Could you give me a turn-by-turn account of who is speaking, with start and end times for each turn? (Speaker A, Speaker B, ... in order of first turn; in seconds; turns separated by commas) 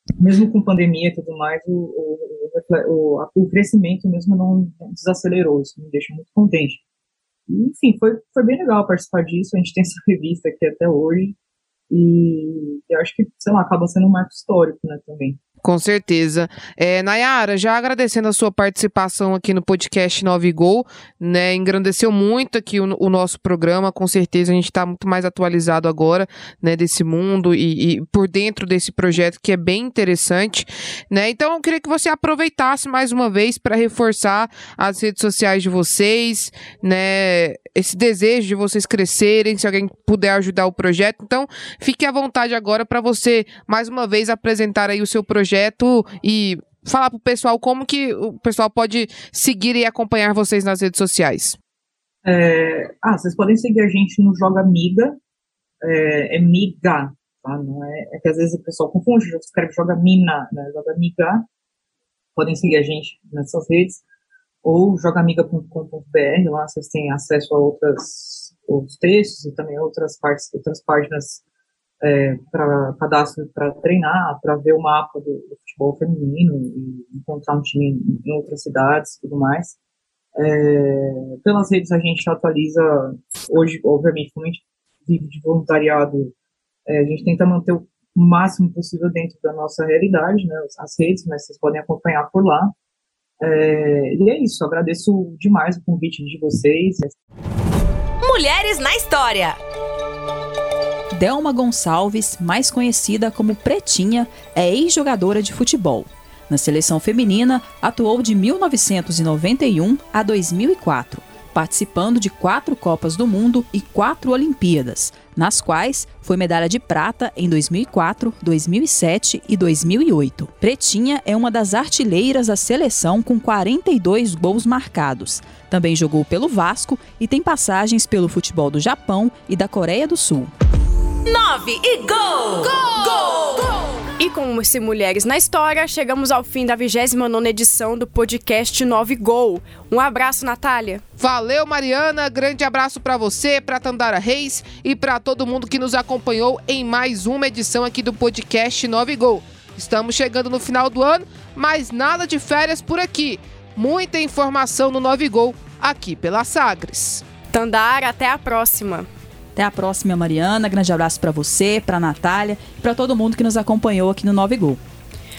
Speaker A: 0.2-6.8, Speaker A: 7.5-11.3, Speaker A: 11.9-15.4, Speaker B: 15.6-51.6, Speaker A: 52.2-55.2, Speaker A: 55.8-61.4, Speaker A: 62.3-64.0, Speaker A: 64.6-71.4, Speaker A: 72.0-79.8, Speaker A: 80.3-86.3, Speaker A: 86.8-92.7, Speaker A: 93.4-97.2, Speaker C: 98.2-99.6, Speaker D: 101.1-130.5, Speaker C: 131.2-133.9, Speaker E: 134.2-141.0, Speaker B: 141.2-157.2, Speaker E: 157.5-159.1, Speaker D: 159.5-164.8